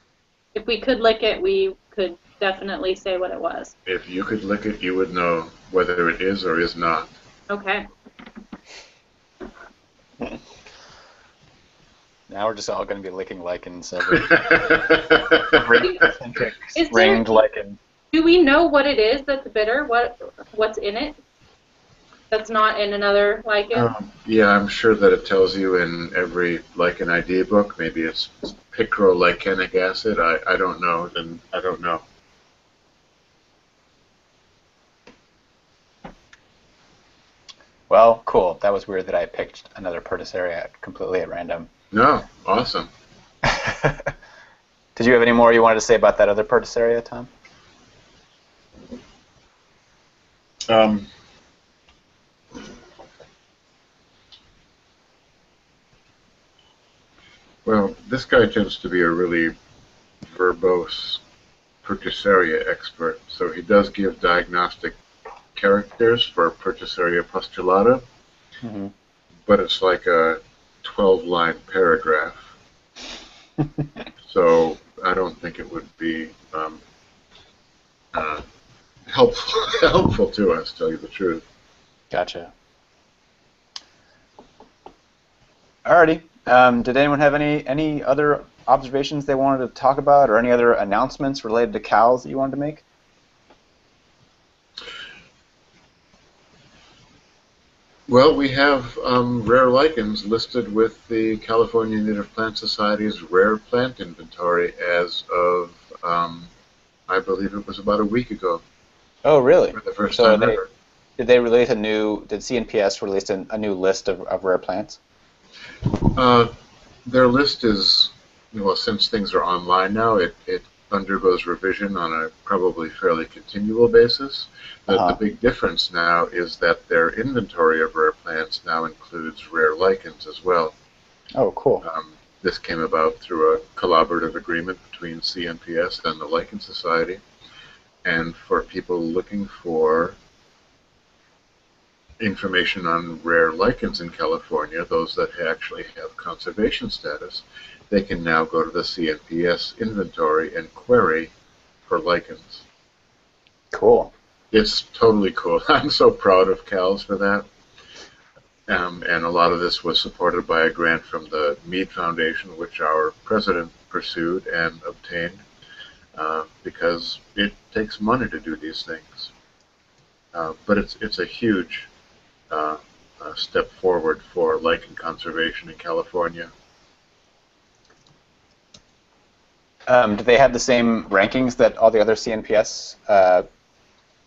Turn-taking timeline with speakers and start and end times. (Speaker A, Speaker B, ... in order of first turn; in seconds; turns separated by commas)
Speaker A: 0.5-3.7, Speaker B: 3.9-7.1, Speaker A: 7.5-7.9, Speaker C: 12.3-14.8, Speaker B: 14.1-15.9, Speaker C: 15.4-17.8, Speaker A: 15.7-16.0, Speaker A: 16.6-17.4, Speaker A: 18.1-21.2, Speaker A: 22.3-23.9, Speaker B: 23.7-32.0, Speaker C: 37.9-41.7, Speaker B: 41.9-42.9, Speaker C: 43.5-44.1, Speaker C: 45.0-47.3, Speaker B: 50.7-51.1, Speaker B: 57.6-59.5, Speaker B: 60.2-61.2, Speaker B: 61.8-65.0, Speaker B: 65.5-68.0, Speaker C: 68.6-68.9, Speaker B: 69.5-72.5, Speaker B: 74.2-76.8, Speaker B: 78.1-78.4, Speaker B: 79.1-81.4, Speaker C: 82.1-82.5, Speaker C: 85.8-92.8, Speaker B: 98.1-106.5, Speaker B: 107.1-108.6, Speaker C: 109.2-110.6, Speaker B: 109.7-110.7, Speaker C: 111.2-115.0, Speaker B: 116.1-116.5, Speaker B: 117.0-130.8, Speaker C: 124.9-125.2, Speaker C: 131.3-131.8, Speaker B: 131.8-137.2, Speaker B: 138.0-140.2, Speaker B: 142.2-151.3, Speaker B: 151.8-152.7, Speaker C: 153.7-154.1, Speaker B: 154.5-157.4, Speaker B: 158.7-165.4, Speaker B: 166.1-169.3, Speaker B: 170.3-171.9, Speaker B: 172.5-176.5, Speaker C: 179.9-183.4